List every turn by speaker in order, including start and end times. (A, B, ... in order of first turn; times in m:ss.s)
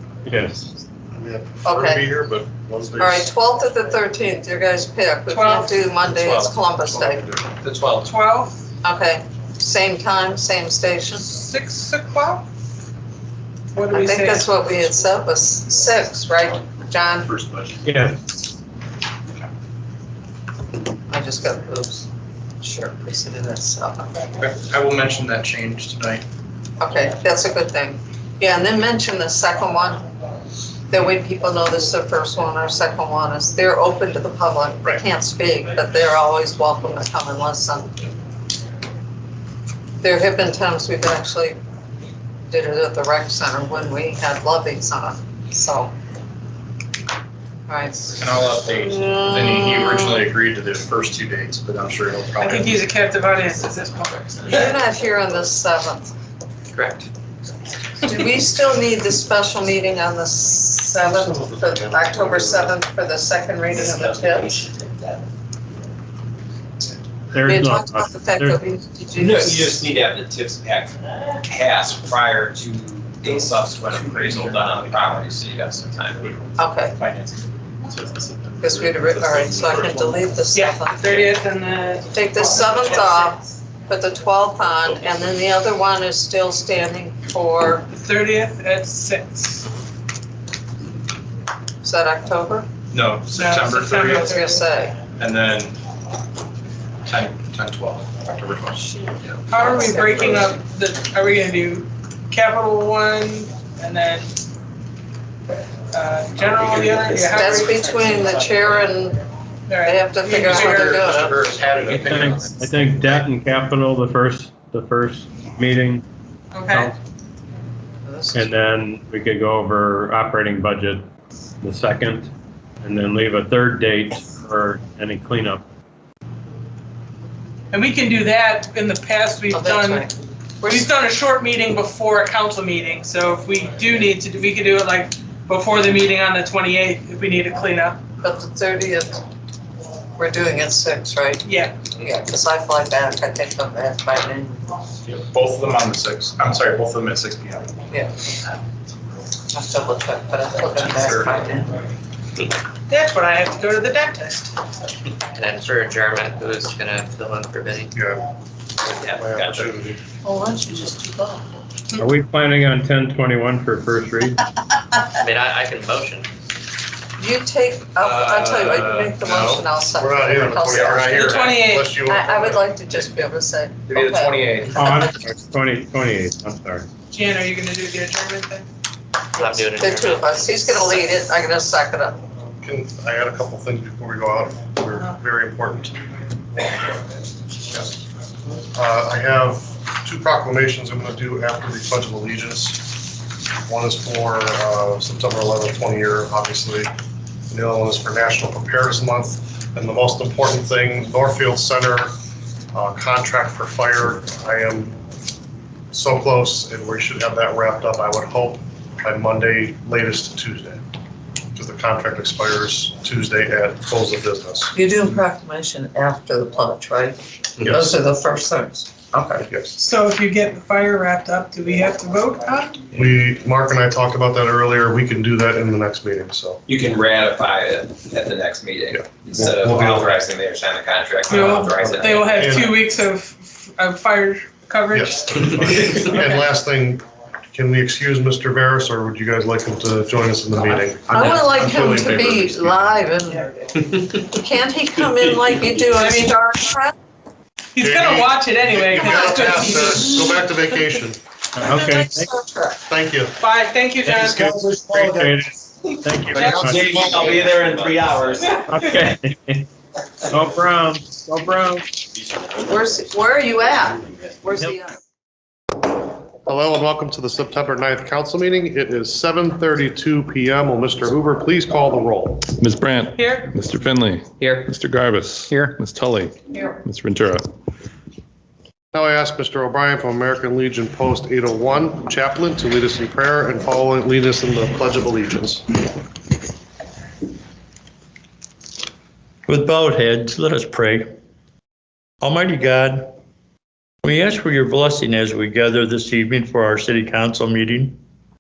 0:00.3-0:00.7 A
0:01.1-0:03.3 B
0:01.6-0:02.1 C
0:03.0-0:07.3 C
0:05.3-0:05.8 D
0:06.2-0:06.6 E
0:07.6-0:07.9 F
0:08.0-0:08.5 D
0:08.8-0:11.3 C
0:11.2-0:12.5 D
0:13.7-0:14.5 D
0:13.9-0:17.3 C
0:17.3-0:17.8 F
0:17.8-0:18.2 A
0:21.1-0:22.1 C
0:22.6-0:24.1 C
0:24.4-0:26.2 F
0:26.8-0:30.0 C
0:30.9-0:38.0 C
0:40.0-0:41.6 C
0:42.5-0:45.9 C
0:47.7-0:50.2 C
0:48.2-0:52.8 F
0:52.4-0:54.8 D
0:54.5-0:56.1 C
0:56.7-0:57.1 E
0:58.0-1:04.6 C
1:01.2-1:02.7 B
1:03.9-1:04.9 G
1:07.3-1:08.6 A
1:07.4-1:09.8 C
1:09.2-1:16.2 G
1:13.9-1:15.1 F
1:16.6-1:17.0 C
1:17.0-1:20.2 F
1:18.6-1:21.2 C
1:20.5-1:23.4 D
1:22.1-1:27.9 C
1:27.9-1:29.7 D
1:31.8-1:32.7 C
1:32.9-1:34.3 F
1:33.3-1:34.6 D
1:34.1-1:35.0 C
1:35.2-1:35.8 F
1:37.1-1:39.4 F
1:38.8-1:40.5 C
1:39.5-1:44.3 D
1:45.9-1:48.7 D
1:47.3-1:49.2 C
1:49.7-1:51.0 D
1:49.8-1:51.6 C
1:50.6-1:52.9 F
1:51.8-1:56.0 A
1:56.5-1:56.9 D
1:56.7-1:57.0 A
1:58.0-1:58.5 C
1:58.3-2:01.1 A
2:01.6-2:02.3 A
2:02.8-2:05.6 A
2:07.7-2:10.1 D
2:09.5-2:10.9 C
2:10.6-2:18.0 D
2:18.2-2:19.2 C
2:20.2-2:24.7 C
2:21.4-2:21.7 D
2:25.1-2:27.7 F
2:27.9-2:28.2 C
2:29.5-2:31.6 C
2:30.8-2:31.4 F
2:30.8-2:31.7 E
2:32.9-2:34.5 D
2:35.3-2:37.9 E
2:37.9-2:38.2 B
2:39.0-2:39.7 G
2:39.0-2:40.0 B
2:40.2-2:41.5 C
2:42.0-2:44.4 A
2:45.2-2:46.3 E
2:47.2-2:51.3 C
2:48.1-2:49.2 G
2:49.2-2:52.7 B
2:51.1-2:52.0 D
2:52.0-2:55.1 C
2:54.0-2:54.7 G
2:54.1-2:54.8 E
2:54.7-2:56.9 A
2:57.1-2:58.7 D
2:59.4-3:00.9 E
2:59.8-3:02.2 C
3:02.6-3:06.1 B
3:08.7-3:16.9 B
3:17.5-3:22.1 B
3:22.7-3:25.0 B
3:25.9-3:30.8 B
3:31.6-3:34.7 B
3:34.7-3:39.5 C
3:39.5-3:39.8 B
3:39.8-3:42.8 D
3:42.9-3:46.6 B
3:46.7-3:52.5 G
3:48.9-3:50.2 B
3:51.3-3:56.4 D
3:51.3-3:52.8 B
3:54.9-4:02.7 B
4:01.1-4:07.0 C
4:01.4-4:02.6 F
4:05.9-4:06.4 D
4:07.7-4:10.5 D
4:07.8-4:11.2 B
4:11.6-4:12.4 A
4:11.7-4:12.8 C
4:12.9-4:13.3 B
4:13.4-4:14.5 D
4:14.0-4:16.9 A
4:16.3-4:17.4 D
4:16.4-4:18.4 G
4:16.5-4:18.5 E
4:18.4-4:18.9 D
4:18.7-4:19.7 A
4:20.3-4:22.0 A
4:22.7-4:25.0 C
4:26.4-4:32.5 B
4:32.6-4:37.5 H
4:33.1-4:33.5 D
4:34.4-4:34.7 E
4:38.9-4:45.7 B
4:49.5-4:51.1 I
4:52.2-4:53.1 I
4:54.0-4:58.0 I